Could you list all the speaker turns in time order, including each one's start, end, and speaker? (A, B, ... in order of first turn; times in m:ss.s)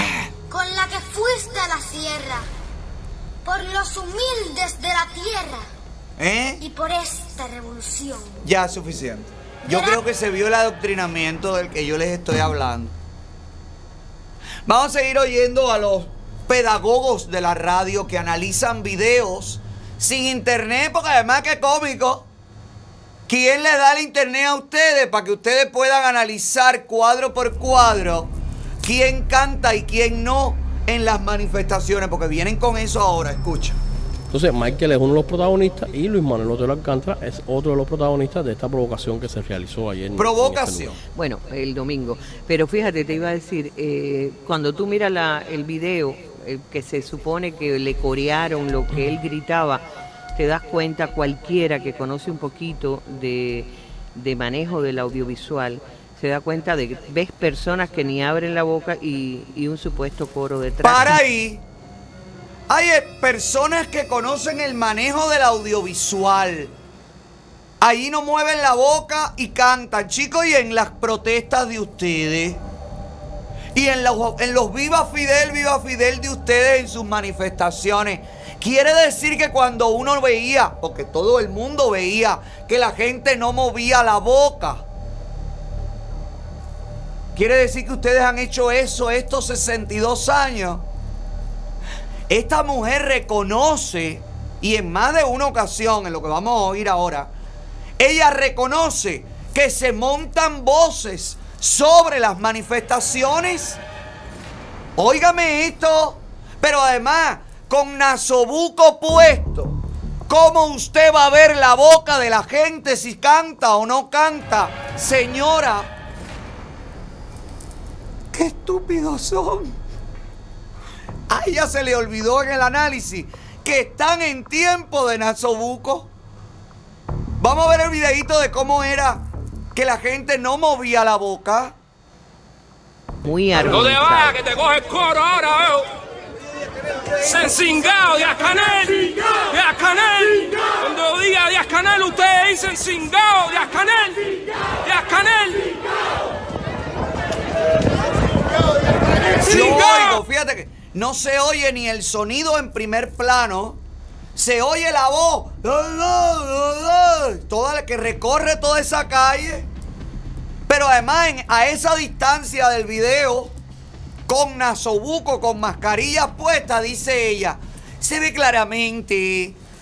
0:00.5-0:02.4 A
0:03.4-0:05.6 A
0:06.2-0:06.6 B
0:06.6-0:08.4 A
0:08.4-0:12.9 B
0:09.6-0:10.0 A
0:14.6-0:22.3 B
0:23.3-0:33.8 B
0:34.3-0:40.9 C
0:40.2-0:41.0 B
0:41.1-0:49.8 D
0:50.3-1:01.2 D
1:00.8-1:01.6 B
1:02.7-1:06.7 B
1:07.8-1:12.6 B
1:13.7-1:24.8 B
1:27.3-1:30.8 B
1:32.3-1:37.3 B
1:38.0-1:43.8 B
1:45.0-1:49.8 B
1:50.3-1:55.9 B
1:58.3-1:59.7 B
2:01.3-2:06.1 B
2:07.4-2:11.7 B
2:13.2-2:14.6 D
2:14.4-2:15.9 E
2:17.2-2:25.8 E
2:29.3-2:33.8 B
2:34.3-2:39.7 B
2:40.7-2:43.5 B
2:44.3-2:49.6 B